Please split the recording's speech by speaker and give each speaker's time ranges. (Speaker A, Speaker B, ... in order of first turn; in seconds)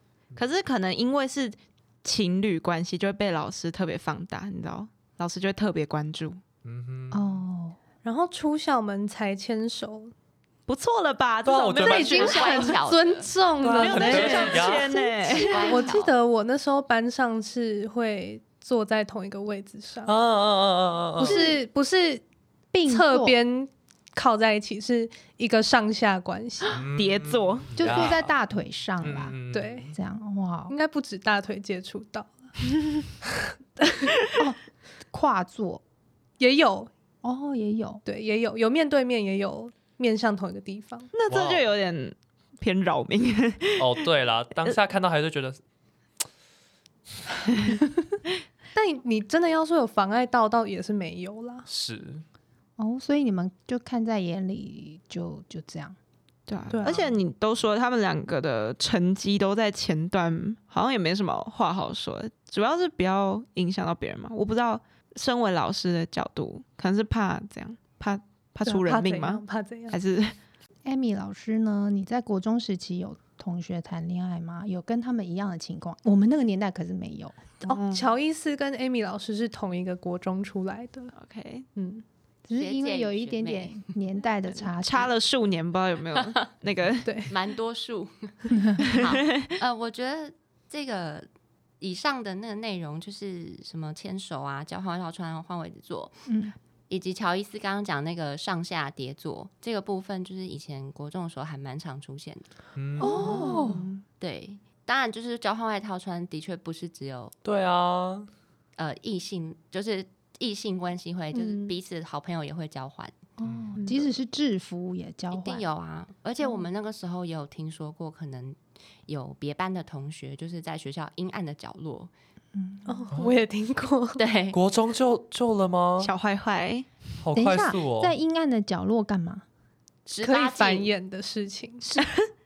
Speaker A: 0.3-6.4, 10.7-12.8, 13.8-15.9, 27.0-28.1, 41.1-44.0, 56.5-70.3, 81.1-81.7, 84.8-87.1, 88.8-89.5, 126.0-126.9, 131.9-132.2
Speaker B: 6.6-7.4, 11.4-12.3, 13.6-14.9, 20.1-21.5, 26.6-28.3, 29.0-29.9, 41.3-41.7, 43.8-45.6, 51.7-52.2, 102.8-103.6, 107.4-108.3, 113.4-113.8, 124.5-126.1, 127.2-128.1
Speaker C: 7.1-7.8, 21.2-21.6, 22.7-23.4, 27.8-29.4, 29.9-30.7, 35.1-35.8, 37.2-38.0, 52.8-56.0, 70.8-78.1, 82.5-85.1, 88.5-88.8, 96.3-96.5, 103.0-103.9, 113.4-115.6, 122.5-123.1, 127.3-129.4
Speaker D: 8.0-10.1, 11.8-20.1, 21.2-22.2, 22.8-26.8, 29.5-29.9, 30.7-32.4, 33.8-34.1, 36.4-36.9, 38.0-41.1, 48.7-51.6, 56.7-57.2, 68.7-70.0, 77.6-81.1, 81.8-82.0, 87.0-87.3, 103.0-103.7, 111.3-111.7, 113.8-114.1, 122.9-124.2, 130.2-131.9
Speaker E: 11.9-13.3, 14.2-14.5, 15.2-16.1, 82.5-83.9, 87.3-91.3, 91.8-96.2, 96.9-102.5, 103.1-103.4, 104.1-107.3, 108.8-113.1, 115.3-122.1, 124.2-124.6, 130.1-130.9